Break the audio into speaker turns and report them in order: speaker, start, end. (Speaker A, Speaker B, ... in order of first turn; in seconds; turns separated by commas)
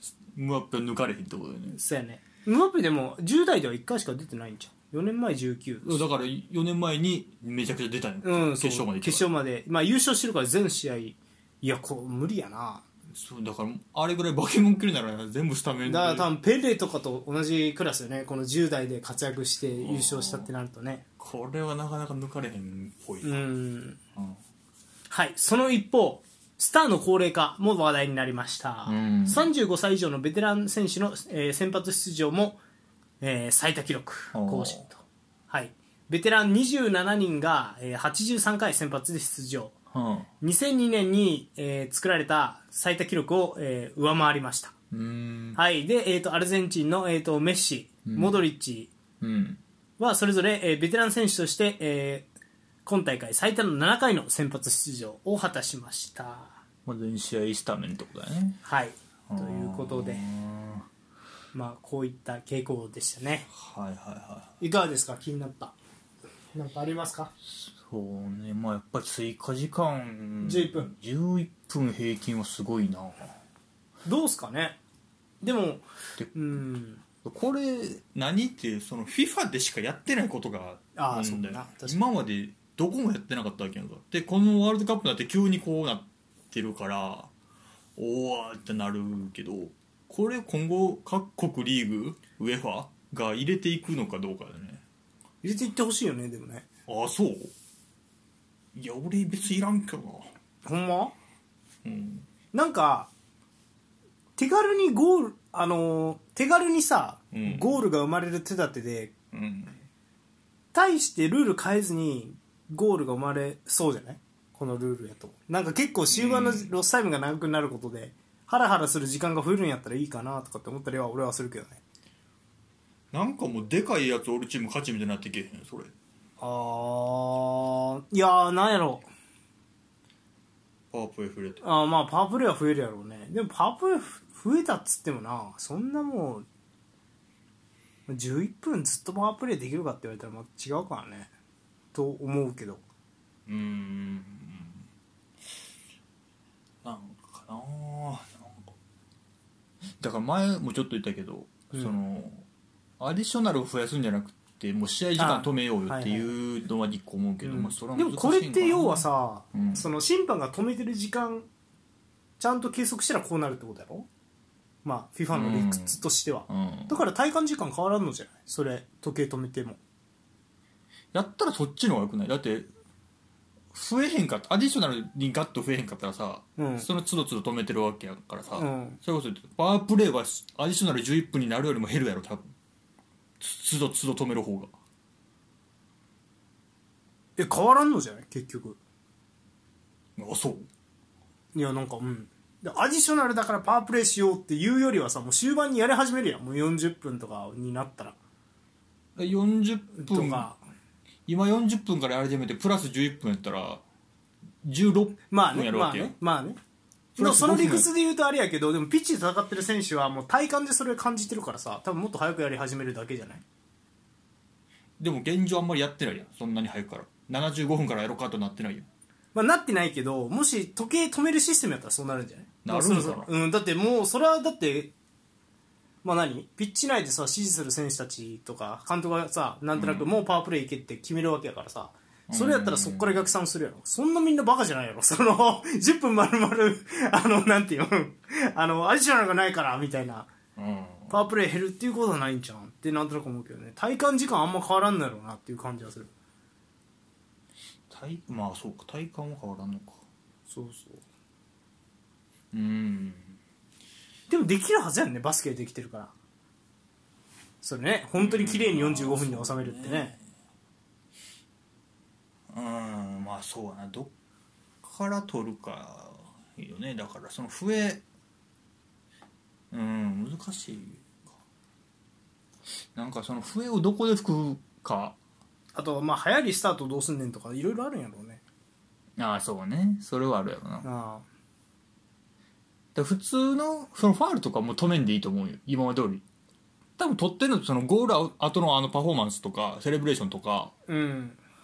Speaker A: 0.2-1.8, Speaker B: 1.7-6.0, Speaker A: 5.8-9.3, Speaker B: 8.2-12.8, Speaker A: 13.1-16.3, Speaker B: 15.8-21.0, Speaker A: 19.8-20.5, Speaker A: 21.2-23.5, Speaker B: 23.2-24.0, Speaker A: 24.1-24.4, Speaker B: 25.1-32.6, Speaker A: 28.9-29.5, Speaker B: 33.2-39.7, Speaker A: 34.3-34.9, Speaker A: 39.9-40.3, Speaker B: 40.4-44.7, Speaker A: 44.9-45.6, Speaker B: 45.6-48.9, Speaker A: 48.1-48.4, Speaker A: 49.2-49.6, Speaker B: 50.0-52.3, Speaker B: 52.9-56.6, Speaker A: 56.9-58.6, Speaker B: 58.6-60.2, Speaker A: 59.3-60.9, Speaker B: 61.5-63.5, Speaker A: 63.5-64.6, Speaker B: 64.6-65.7, Speaker B: 66.5-67.3, Speaker A: 67.4-73.4, Speaker B: 70.4-70.9, Speaker B: 74.0-74.8, Speaker B: 75.4-77.0, Speaker A: 77.2-87.3, Speaker B: 81.0-82.0, Speaker A: 88.0-94.8, Speaker B: 95.4-96.7, Speaker A: 96.9-97.5, Speaker A: 98.7-100.3, Speaker B: 100.6-101.1, Speaker A: 101.8-102.3, Speaker B: 102.5-103.1, Speaker B: 104.4-109.1, Speaker A: 107.3-107.8, Speaker A: 109.3-109.8, Speaker B: 110.7-121.8, Speaker A: 116.1-116.7, Speaker A: 123.1-125.9, Speaker B: 126.4-129.1, Speaker A: 130.9-131.6, Speaker B: 131.6-136.4, Speaker B: 138.1-141.3, Speaker B: 141.9-142.8, Speaker A: 143.4-144.9, Speaker A: 146.8-148.7, Speaker A: 150.0-152.4, Speaker A: 153.0-159.9, Speaker B: 155.2-156.3, Speaker B: 157.4-161.5, Speaker B: 162.4-164.1, Speaker B: 164.8-169.8, Speaker A: 165.3-167.0, Speaker A: 171.1-172.7, Speaker A: 173.7-182.5, Speaker B: 176.6-176.9, Speaker B: 178.5-179.0, Speaker A: 183.4-184.7, Speaker B: 187.4-188.8, Speaker A: 190.2-190.7, Speaker B: 191.5-198.2, Speaker A: 199.2-200.5, Speaker B: 199.9-200.6, Speaker A: 201.2-203.8, Speaker A: 204.6-206.1, Speaker B: 205.3-206.6, Speaker A: 207.2-207.9, Speaker B: 207.2-213.4, Speaker A: 215.0-218.9, Speaker B: 219.3-224.9, Speaker A: 222.6-223.3, Speaker B: 226.0-240.3, Speaker A: 229.7-230.1, Speaker A: 232.3-233.3, Speaker A: 240.6-241.1, Speaker B: 241.1-246.1, Speaker A: 247.9-250.0, Speaker B: 250.5-251.0, Speaker A: 252.5-253.4, Speaker B: 254.3-256.1, Speaker B: 257.6-260.1, Speaker A: 258.2-260.2, Speaker A: 262.5-264.1, Speaker A: 264.8-268.0, Speaker A: 269.7-271.4, Speaker A: 272.9-275.2, Speaker B: 275.7-278.4, Speaker A: 279.2-280.9, Speaker B: 280.8-281.2, Speaker A: 282.9-286.2, Speaker A: 287.0-290.7, Speaker B: 290.9-291.4